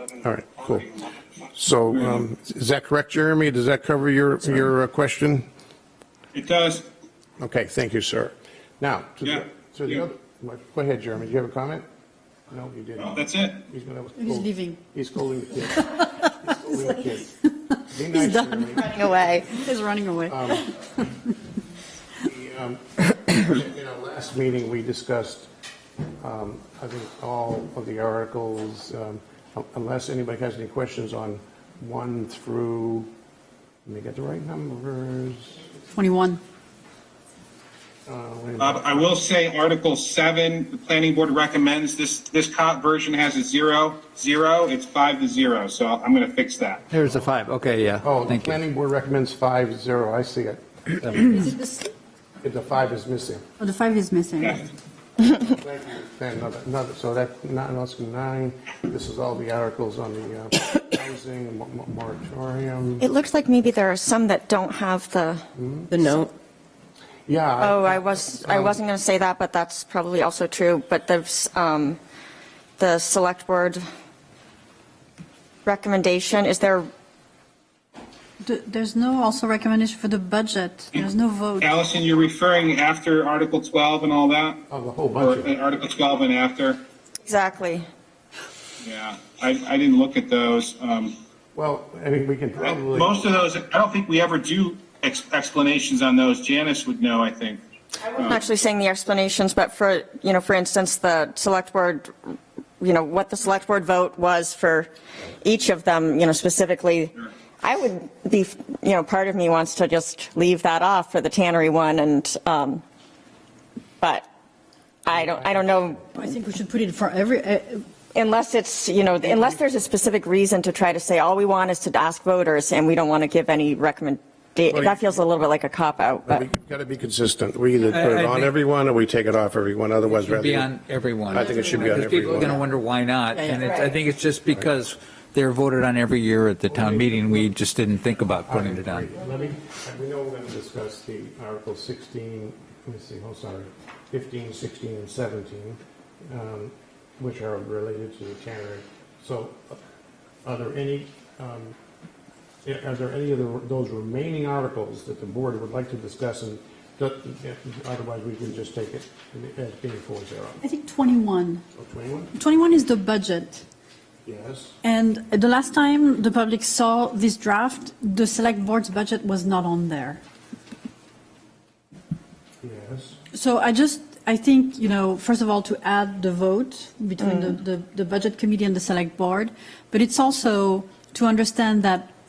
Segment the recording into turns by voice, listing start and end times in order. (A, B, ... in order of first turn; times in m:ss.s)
0:00.2-0:00.9 A
0:01.5-0:05.5 A
0:06.3-0:06.9 B
0:07.4-0:11.8 A
0:12.5-0:17.3 A
0:13.1-0:13.6 B
0:14.2-0:14.8 C
0:15.6-0:16.5 C
0:17.9-0:19.5 A
0:18.1-0:21.1 C
0:18.9-0:19.4 D
0:20.3-0:20.7 A
0:22.2-0:25.5 A
0:26.2-0:33.1 A
0:33.9-0:35.6 A
0:36.0-0:36.4 C
0:38.1-0:39.2 A
0:38.6-0:46.8 B
0:46.9-0:48.6 E
0:48.0-0:51.4 A
0:51.3-0:51.8 C
0:52.4-0:53.4 A
0:53.6-0:54.7 C
0:55.3-1:03.1 A
1:03.0-1:05.4 D
1:05.6-1:05.9 A
1:07.3-1:08.8 A
1:07.6-1:12.0 D
1:12.8-1:13.8 D
1:15.6-1:16.9 D
1:18.4-1:21.8 C
1:21.6-1:24.6 B
1:24.7-1:25.6 A
1:25.2-1:26.8 B
1:27.2-1:27.9 D
1:28.8-1:31.1 B
1:31.6-1:33.3 A
1:32.9-1:37.6 B
1:38.1-1:44.9 D
1:45.4-1:52.8 D
1:54.0-1:54.3 D
1:55.1-1:56.2 D
1:55.2-1:56.0 A
1:56.2-1:57.8 C
1:58.1-2:06.4 D
2:04.7-2:05.0 A
2:06.3-2:10.7 A
2:07.9-2:08.5 E
2:10.1-2:19.1 E
2:11.3-2:12.7 A
2:11.4-2:11.9 C
2:13.3-2:13.7 C
2:13.6-2:13.9 D
2:16.7-2:17.6 A
2:18.4-2:25.8 A
2:26.3-2:29.8 A
2:30.4-2:31.8 A
2:32.6-2:40.6 A
2:40.6-2:41.6 C
2:41.8-2:42.3 A
2:42.3-2:43.7 C
2:44.2-2:44.8 A
2:44.8-2:50.2 C
2:52.6-2:53.2 A
2:53.3-3:02.1 C
2:57.2-2:57.5 D